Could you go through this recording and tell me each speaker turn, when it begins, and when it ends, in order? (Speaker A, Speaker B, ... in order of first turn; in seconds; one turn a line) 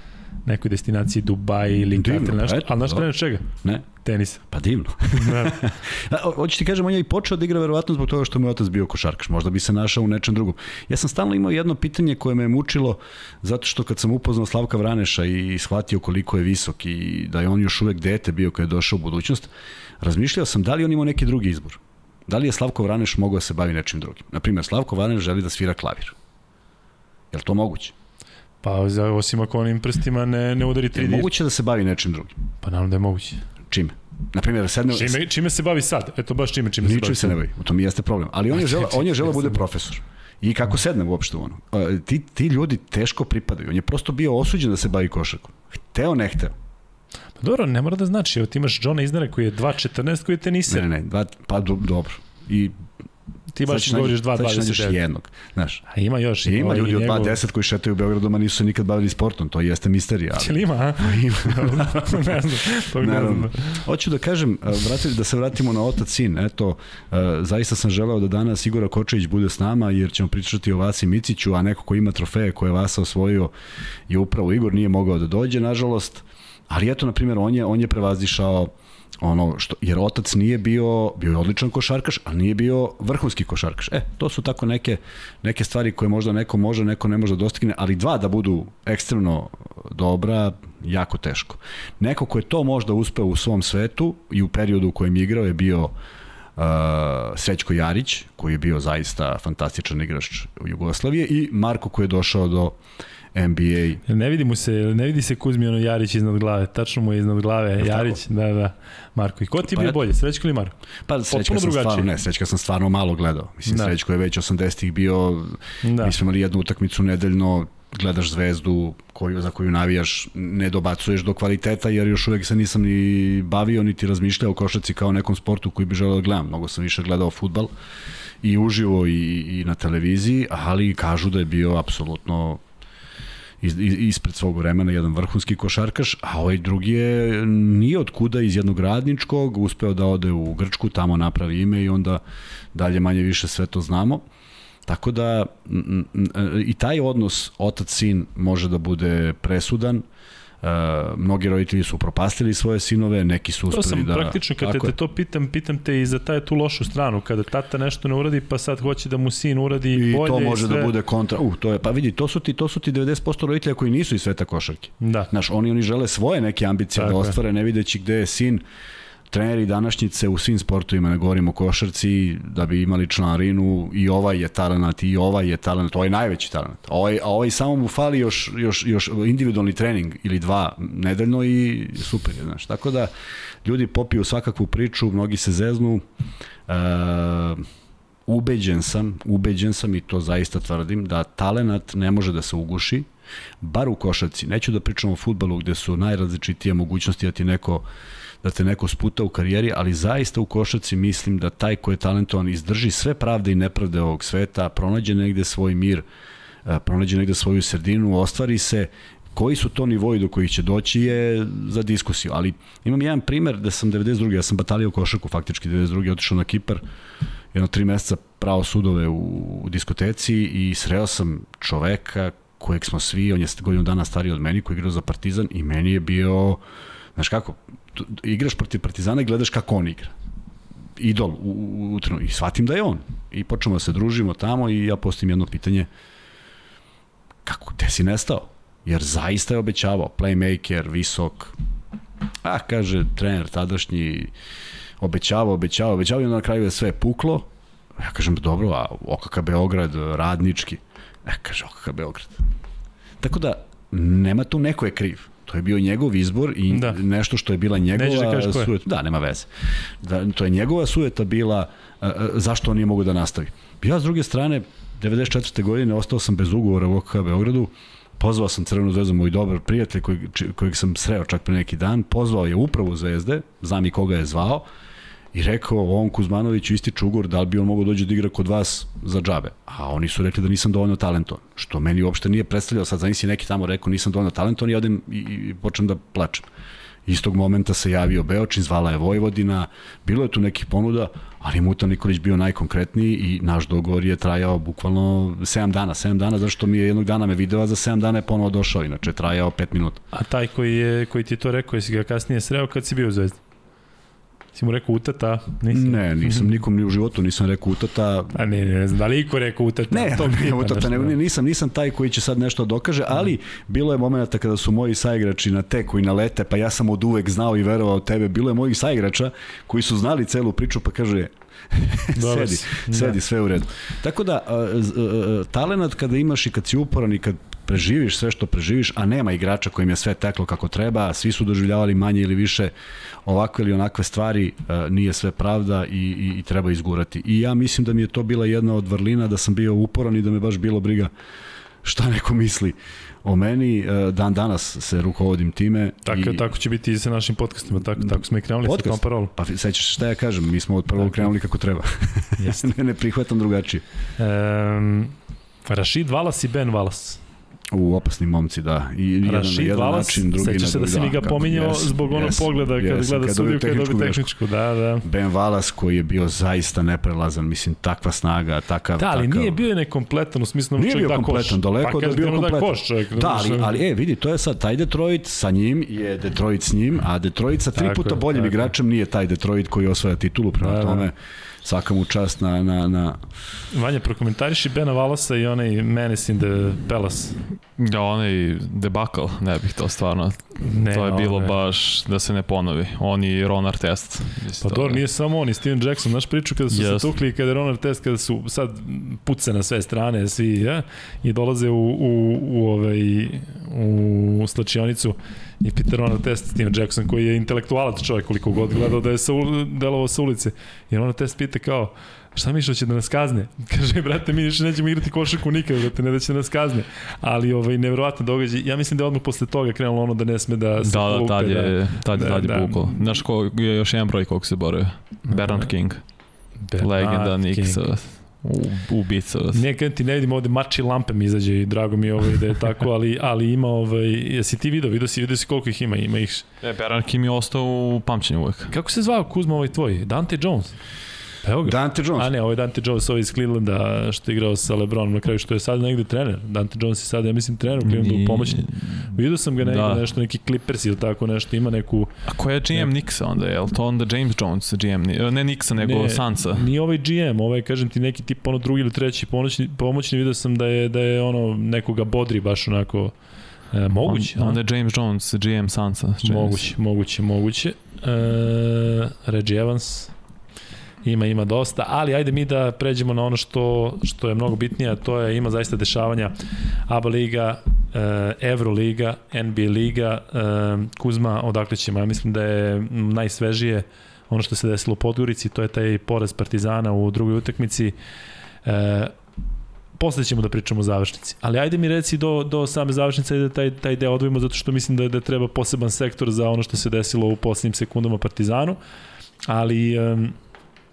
Speaker A: 0.4-4.4
Speaker B: 1.9-3.9
Speaker B: 4.5-19.5
Speaker A: 5.1-5.7
Speaker B: 20.0-26.1
Speaker B: 27.3-27.9
Speaker A: 28.6-31.3
Speaker B: 30.9-32.4
Speaker A: 32.6-33.4
Speaker B: 33.7-35.2
Speaker A: 34.9-37.4
Speaker B: 36.8-46.5
Speaker A: 38.5-39.6
Speaker A: 47.4-50.9
Speaker B: 50.7-52.7
Speaker A: 53.5-55.0
Speaker B: 53.6-55.8
Speaker A: 55.9-57.4
Speaker B: 56.4-62.4
Speaker A: 60.4-63.8
Speaker B: 62.9-73.5
Speaker B: 74.1-95.9
Speaker B: 96.6-102.8
Speaker B: 103.3-104.0
Speaker A: 104.1-110.8
Speaker B: 107.8-108.2
Speaker B: 109.7-110.0
Speaker B: 111.1-127.7
Speaker A: 111.3-112.1
Speaker A: 113.7-113.9
Speaker A: 115.8-116.2
Speaker B: 128.4-132.6
Speaker B: 133.6-142.2
Speaker B: 142.7-144.2
Speaker B: 144.8-150.0
Speaker B: 150.6-154.9
Speaker A: 153.7-160.9
Speaker B: 159.9-168.6
Speaker A: 165.0-165.3
Speaker A: 166.9-167.4
Speaker B: 169.3-183.1
Speaker B: 183.6-186.0
Speaker B: 186.7-187.6
Speaker B: 188.3-193.1
Speaker B: 193.6-197.8
Speaker B: 198.4-206.1
Speaker B: 206.6-216.8
Speaker B: 217.5-226.6
Speaker B: 227.2-230.1
Speaker B: 231.0-235.9
Speaker B: 237.4-241.6
Speaker B: 242.4-244.3
Speaker B: 245.0-247.4
Speaker B: 248.0-252.4
Speaker B: 253.2-259.5
Speaker A: 256.7-257.0
Speaker A: 257.9-258.7
Speaker B: 260.0-274.6
Speaker B: 275.3-286.5
Speaker B: 287.1-300.0
Speaker A: 300.1-303.4
Speaker A: 304.5-306.5
Speaker B: 305.7-308.4
Speaker A: 308.3-311.2
Speaker B: 309.9-332.7
Speaker A: 322.1-323.2
Speaker B: 333.2-341.1
Speaker B: 341.8-346.4
Speaker A: 346.1-349.3
Speaker B: 348.6-353.8
Speaker A: 352.4-352.7
Speaker A: 354.2-355.1
Speaker A: 355.6-357.2
Speaker B: 357.7-364.3
Speaker A: 359.2-365.1
Speaker B: 365.0-369.6
Speaker A: 369.0-373.8
Speaker B: 370.8-383.2
Speaker A: 377.7-378.7
Speaker A: 380.6-381.1
Speaker A: 383.7-387.4
Speaker C: 387.8-395.0
Speaker A: 390.6-391.5
Speaker A: 394.6-423.0
Speaker C: 396.7-397.1
Speaker C: 420.8-426.2
Speaker A: 425.3-425.7
Speaker A: 426.6-427.8
Speaker C: 426.7-429.6
Speaker A: 429.5-436.4
Speaker C: 436.6-438.7
Speaker A: 438.7-440.8
Speaker A: 441.4-452.1
Speaker B: 441.6-442.3
Speaker C: 447.8-450.1
Speaker C: 452.3-456.7
Speaker A: 455.8-463.1
Speaker A: 463.7-464.6
Speaker C: 464.1-466.7
Speaker A: 466.2-470.1
Speaker A: 471.0-476.3
Speaker A: 476.9-487.9
Speaker A: 488.6-489.1
Speaker A: 490.0-498.8
Speaker A: 499.5-500.4